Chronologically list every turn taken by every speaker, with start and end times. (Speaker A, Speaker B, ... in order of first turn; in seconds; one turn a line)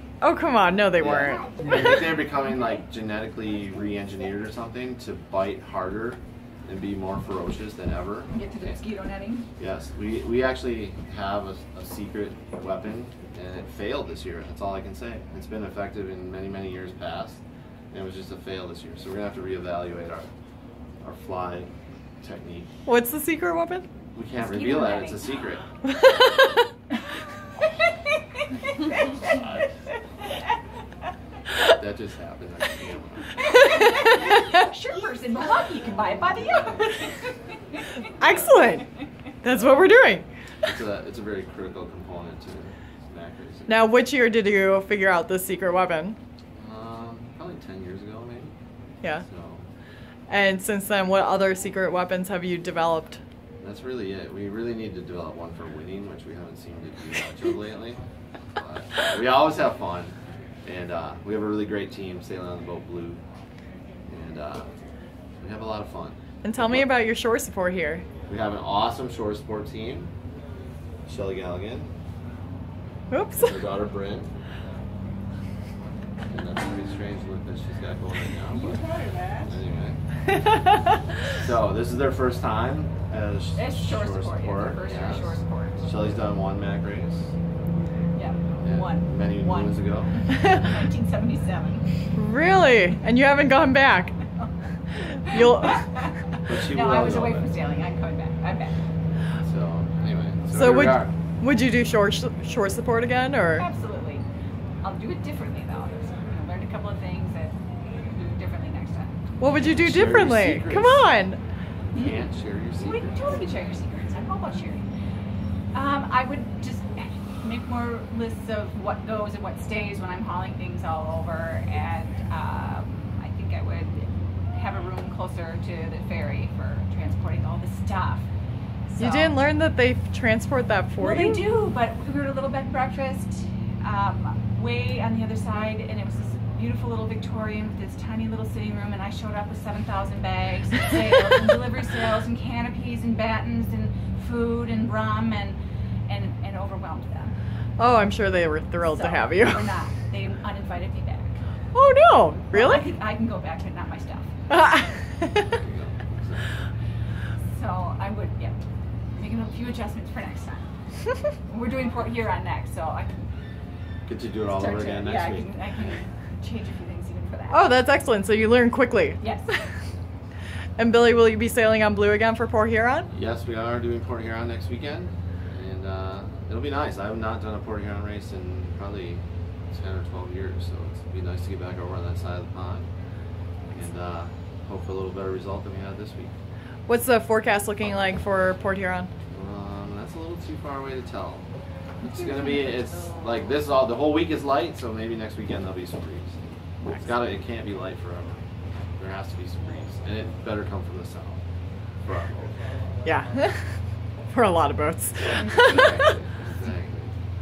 Speaker A: 0.2-1.8
Speaker B: 1.0-8.8
Speaker C: 8.3-9.5
Speaker B: 9.6-20.3
Speaker B: 21.0-22.7
Speaker A: 22.9-23.9
Speaker B: 24.1-25.6
Speaker C: 24.4-25.4
Speaker A: 25.8-26.6
Speaker B: 29.3-29.6
Speaker B: 31.6-33.4
Speaker C: 33.4-37.9
Speaker A: 38.2-38.9
Speaker A: 39.4-40.2
Speaker B: 40.6-43.9
Speaker A: 43.7-46.2
Speaker B: 46.6-48.5
Speaker B: 49.2-49.6
Speaker A: 50.3-53.2
Speaker B: 53.6-58.0
Speaker B: 58.5-63.2
Speaker B: 64.1-64.7
Speaker B: 65.4-66.9
Speaker A: 66.4-68.0
Speaker B: 68.3-70.1
Speaker B: 71.1-71.9
Speaker A: 73.1-73.5
Speaker B: 73.3-74.3
Speaker B: 76.3-78.8
Speaker C: 78.5-79.5
Speaker B: 79.4-80.0
Speaker B: 81.3-87.3
Speaker C: 83.5-86.1
Speaker C: 88.1-91.8
Speaker B: 88.6-90.1
Speaker A: 92.2-94.1
Speaker C: 95.1-98.8
Speaker A: 95.2-95.8
Speaker B: 96.4-97.5
Speaker B: 99.4-101.1
Speaker A: 100.5-103.7
Speaker C: 103.6-104.2
Speaker C: 104.8-109.2
Speaker A: 109.4-111.4
Speaker B: 109.5-111.0
Speaker B: 111.9-113.2
Speaker C: 111.9-112.2
Speaker C: 112.8-114.8
Speaker C: 115.7-128.3
Speaker A: 128.9-131.4
Speaker C: 129.0-129.4
Speaker C: 131.0-147.3
Speaker A: 147.8-149.7
Speaker C: 148.9-151.4
Speaker A: 151.7-152.8
Speaker C: 152.5-154.3
Speaker A: 154.5-155.3
Speaker B: 155.4-156.7
Speaker C: 157.5-158.6
Speaker C: 159.1-160.7
Speaker C: 161.5-163.2
Speaker B: 164.1-165.5
Speaker C: 164.4-167.7
Speaker A: 167.5-169.2
Speaker C: 169.2-169.7
Speaker A: 170.8-173.1
Speaker B: 173.1-182.9
Speaker B: 183.7-186.3
Speaker A: 186.9-189.1
Speaker B: 189.3-191.4
Speaker B: 192.0-196.4
Speaker B: 196.9-198.4
Speaker B: 199.0-201.4
Speaker B: 202.0-202.5
Speaker A: 203.0-206.1
Speaker C: 205.3-205.7
Speaker B: 205.4-207.1